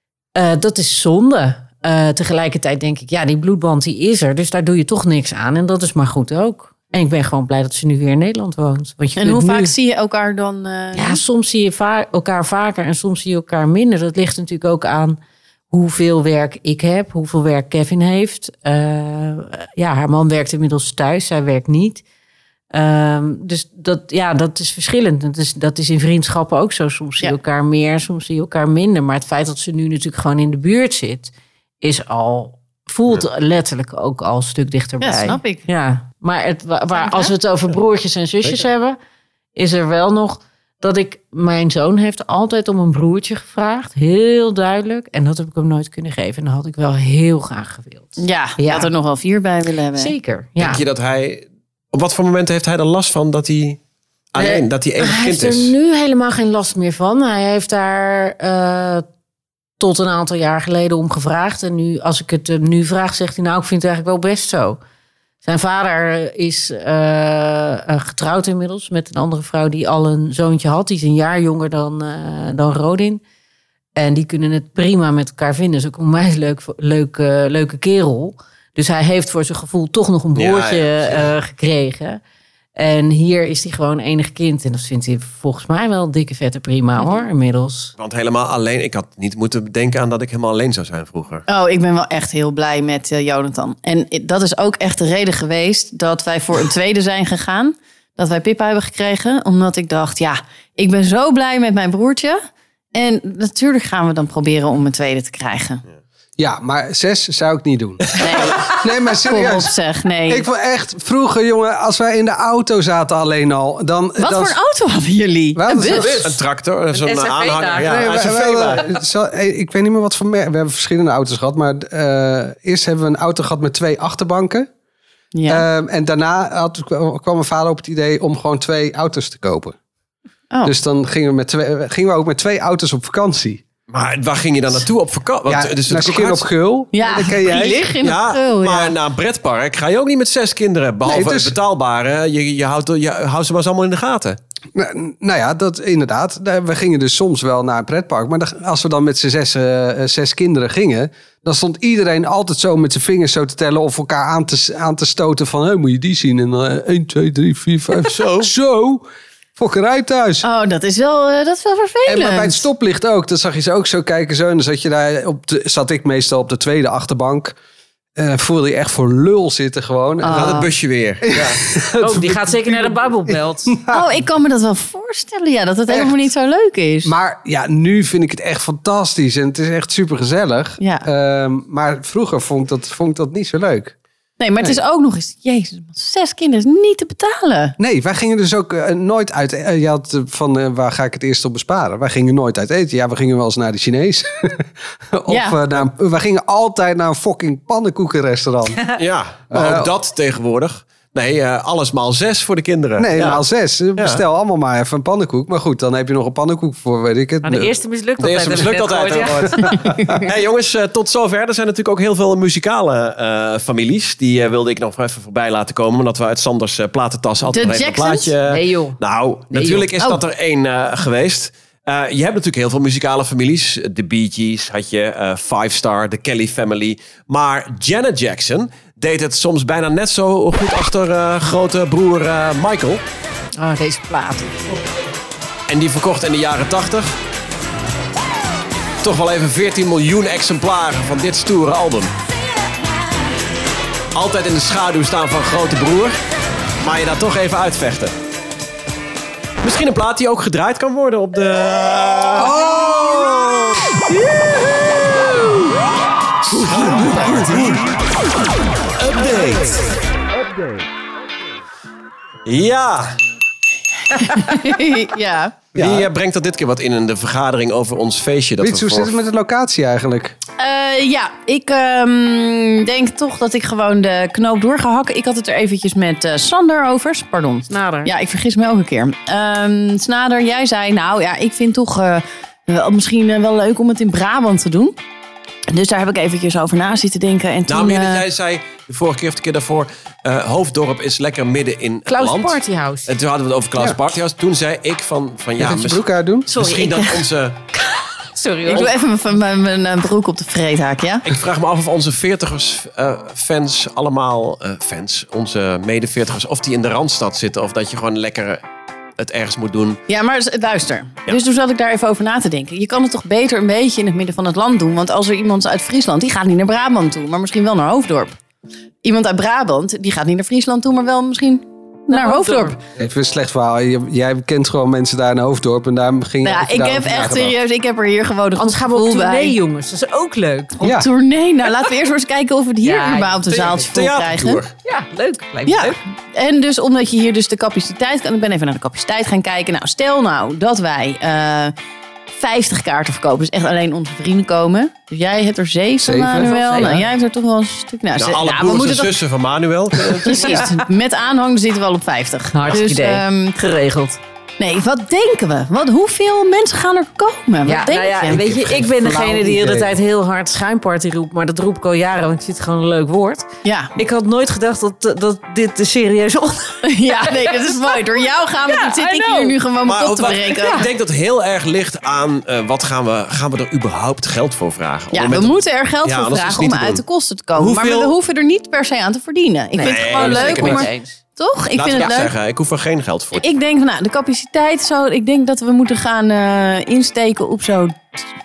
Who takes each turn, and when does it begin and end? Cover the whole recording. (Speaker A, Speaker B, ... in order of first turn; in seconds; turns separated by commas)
Speaker A: 0.3-9.7, Speaker B: 9.2-11.2, Speaker A: 11.0-15.2, Speaker A: 15.7-22.0, Speaker A: 22.7-31.3, Speaker A: 31.8-39.0, Speaker B: 35.0-35.6, Speaker B: 36.9-37.3, Speaker A: 39.6-48.9, Speaker B: 48.2-50.1, Speaker A: 50.0-50.8, Speaker C: 50.6-53.8, Speaker C: 54.3-55.8, Speaker A: 54.4-59.0, Speaker A: 59.8-64.8, Speaker A: 65.4-73.2, Speaker A: 74.0-82.2, Speaker C: 80.3-81.3, Speaker A: 82.8-87.9, Speaker B: 87.0-87.3, Speaker C: 88.0-91.5, Speaker B: 91.5-102.4, Speaker B: 102.9-105.8, Speaker D: 106.4-109.7, Speaker C: 108.1-108.5, Speaker B: 108.1-110.5, Speaker D: 110.3-114.6, Speaker B: 114.2-116.2, Speaker D: 115.5-116.2, Speaker A: 115.8-116.3, Speaker C: 116.1-118.9, Speaker A: 116.9-118.3, Speaker D: 117.8-124.7, Speaker B: 125.3-125.7, Speaker D: 125.5-129.8, Speaker D: 130.7-133.6, Speaker C: 133.9-136.5, Speaker D: 135.5-137.8, Speaker B: 136.9-138.9, Speaker C: 138.0-144.4, Speaker D: 141.1-141.6, Speaker D: 144.7-159.1, Speaker C: 158.0-158.5, Speaker D: 159.6-160.4, Speaker B: 160.4-162.6, Speaker D: 162.1-167.6, Speaker D: 168.2-170.7, Speaker B: 170.2-170.7, Speaker C: 170.2-171.6, Speaker D: 171.2-174.1, Speaker A: 172.0-173.8, Speaker B: 173.9-177.1, Speaker D: 175.9-176.1, Speaker D: 177.1-183.9, Speaker B: 180.8-181.1, Speaker B: 184.4-187.8, Speaker D: 187.8-198.8, Speaker B: 195.3-195.6, Speaker C: 198.9-203.4, Speaker D: 199.5-199.9, Speaker D: 203.0-207.8, Speaker C: 204.0-204.2, Speaker A: 207.4-209.8, Speaker C: 208.2-233.0, Speaker D: 209.7-210.2, Speaker B: 209.7-210.3, Speaker B: 217.5-218.3, Speaker A: 218.5-219.0, Speaker A: 219.5-219.9, Speaker A: 233.6-234.7, Speaker C: 235.7-237.1, Speaker C: 239.0-242.1, Speaker C: 244.1-246.2, Speaker C: 246.8-248.1, Speaker C: 249.6-252.6, Speaker D: 252.4-253.8, Speaker C: 256.5-257.9, Speaker C: 259.0-259.9, Speaker C: 262.5-263.2, Speaker B: 264.1-265.6, Speaker D: 265.8-266.1, Speaker C: 265.8-269.1, Speaker D: 268.6-270.4, Speaker B: 270.6-285.0, Speaker A: 277.7-278.1, Speaker B: 285.7-288.2, Speaker C: 287.7-297.6, Speaker A: 292.1-293.1, Speaker D: 295.6-296.5, Speaker A: 296.5-297.2, Speaker A: 297.8-298.9, Speaker B: 298.7-301.2, Speaker C: 301.2-308.6, Speaker C: 309.2-310.0, Speaker B: 310.1-318.4, Speaker B: 319.0-322.8, Speaker A: 322.1-322.8, Speaker D: 323.0-327.6, Speaker B: 326.4-329.6, Speaker A: 328.6-331.0, Speaker D: 330.8-331.1, Speaker B: 330.8-334.6, Speaker A: 332.8-334.0, Speaker C: 333.9-334.8, Speaker A: 334.8-336.0, Speaker B: 335.7-341.7, Speaker B: 342.3-349.1, Speaker D: 346.0-347.0, Speaker A: 346.4-347.1, Speaker C: 348.2-350.7, Speaker A: 350.1-350.8, Speaker B: 350.2-353.6, Speaker A: 352.5-354.2, Speaker B: 354.6-358.4, Speaker A: 357.6-369.6, Speaker D: 358.2-359.9, Speaker B: 363.6-364.0, Speaker B: 366.8-370.9, Speaker C: 369.9-377.0, Speaker A: 370.6-370.9, Speaker B: 375.1-382.3, Speaker C: 377.6-378.1, Speaker A: 379.8-381.2, Speaker C: 379.8-380.9, Speaker C: 381.8-383.5, Speaker B: 383.4-388.2